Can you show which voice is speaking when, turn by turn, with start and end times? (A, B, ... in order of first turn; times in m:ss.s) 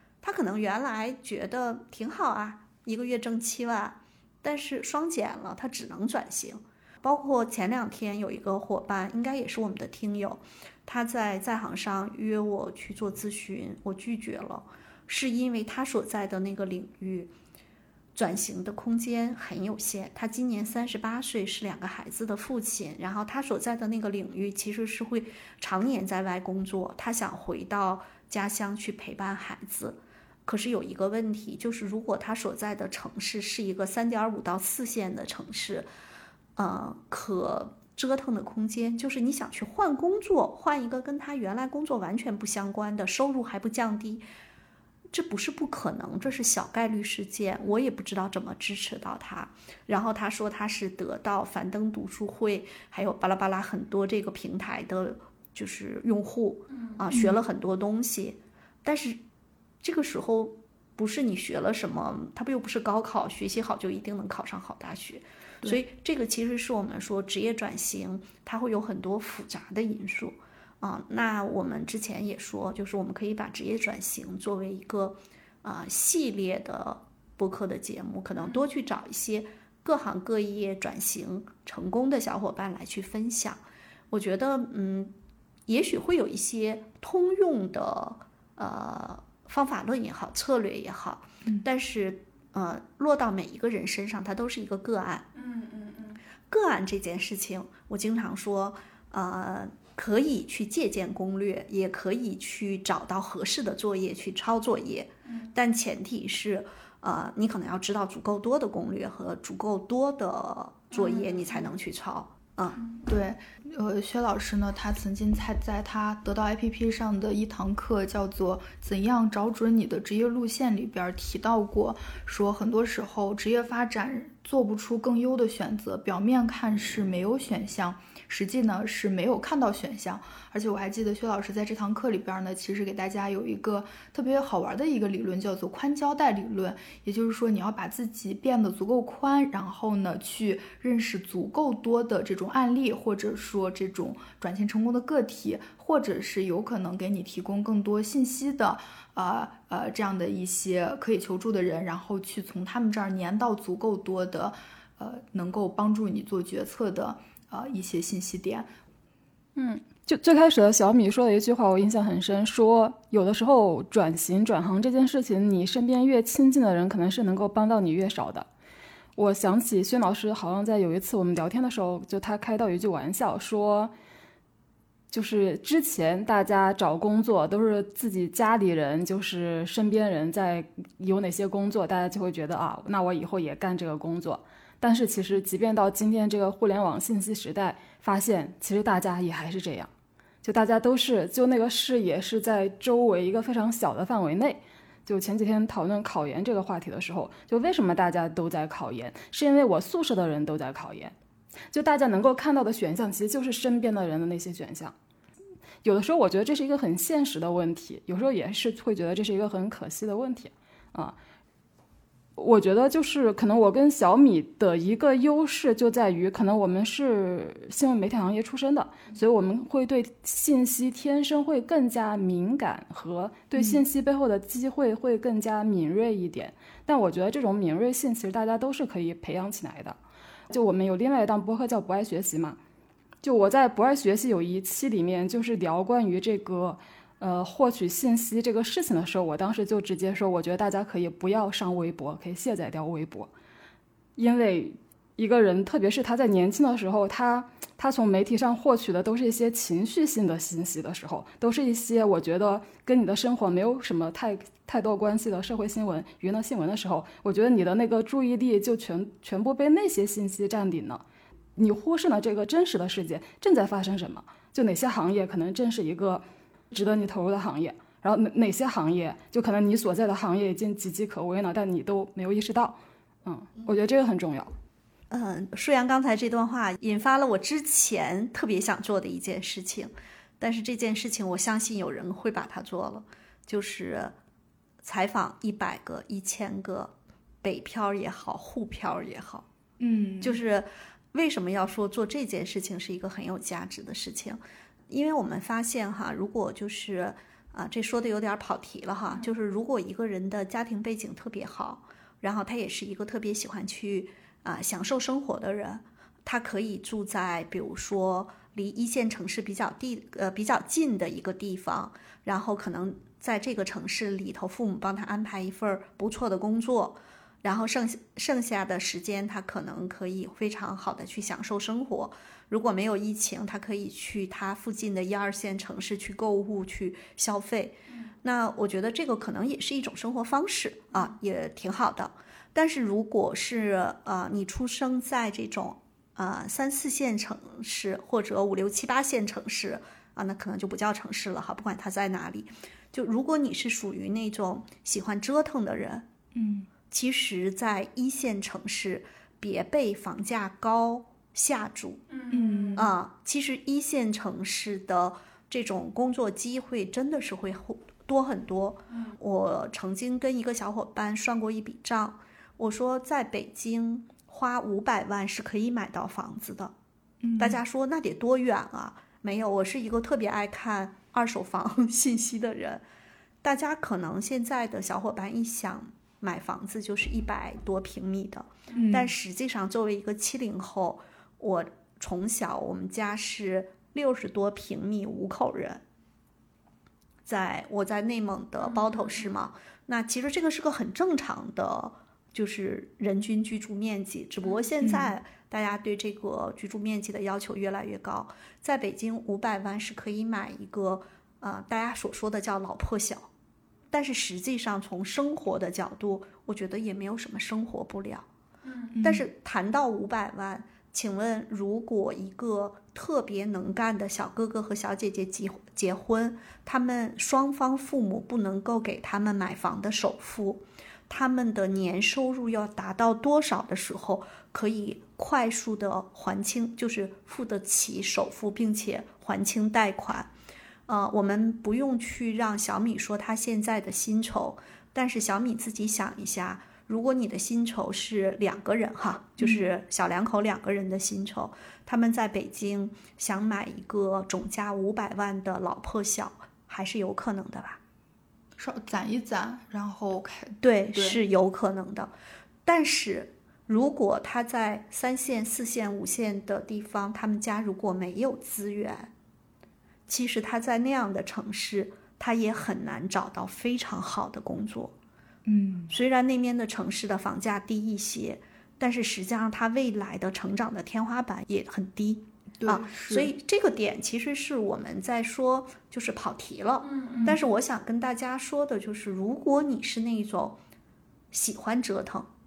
0:00.2-0:17.3 A
0:18.2-0:35.9 A
0:36.6-0:44.2 A
0:45.1-0:59.2 A
0:57.1-0:57.4 B
0:59.8-1:23.6 A
1:24.1-1:25.1 A
1:25.7-1:35.3 A
1:35.4-1:36.2 C
1:36.5-1:52.8 A
1:50.9-1:51.7 C
1:53.1-2:38.7 B
2:39.6-2:48.5 C
2:49.2-2:53.9 C
2:55.1-3:09.9 C
3:10.4-3:21.2 C
3:21.7-3:24.9 C
3:25.8-3:31.2 C
3:32.4-3:50.0 C
3:43.6-3:43.8 B
3:50.5-3:52.6 C
3:53.2-4:03.3 C
4:04.2-4:21.0 C
4:21.6-4:34.5 C
4:35.1-4:44.2 A
4:44.8-4:49.5 A
4:49.8-4:50.4 B
4:50.2-5:46.1 A
5:46.4-5:46.7 B
5:46.9-5:52.0 A
5:52.1-5:52.8 C
5:52.3-5:52.9 B
5:52.8-6:06.7 A
6:07.2-6:07.6 B
6:07.4-6:12.8 A
6:13.4-6:25.8 A
6:18.8-6:19.1 B
6:27.3-6:43.3 A
6:28.8-6:29.1 C
6:34.8-6:35.2 B
6:43.9-6:48.3 A
6:48.9-6:49.3 B
6:49.0-7:10.3 A
7:10.9-7:27.8 A
7:19.4-7:19.7 B
7:28.6-7:31.2 B
7:30.6-7:32.1 A
7:32.7-7:39.1 A
7:40.1-7:45.0 A
7:45.5-7:45.9 B
7:45.9-8:00.6 A
7:52.6-7:53.3 B
7:56.9-7:57.3 C
8:01.3-8:02.3 A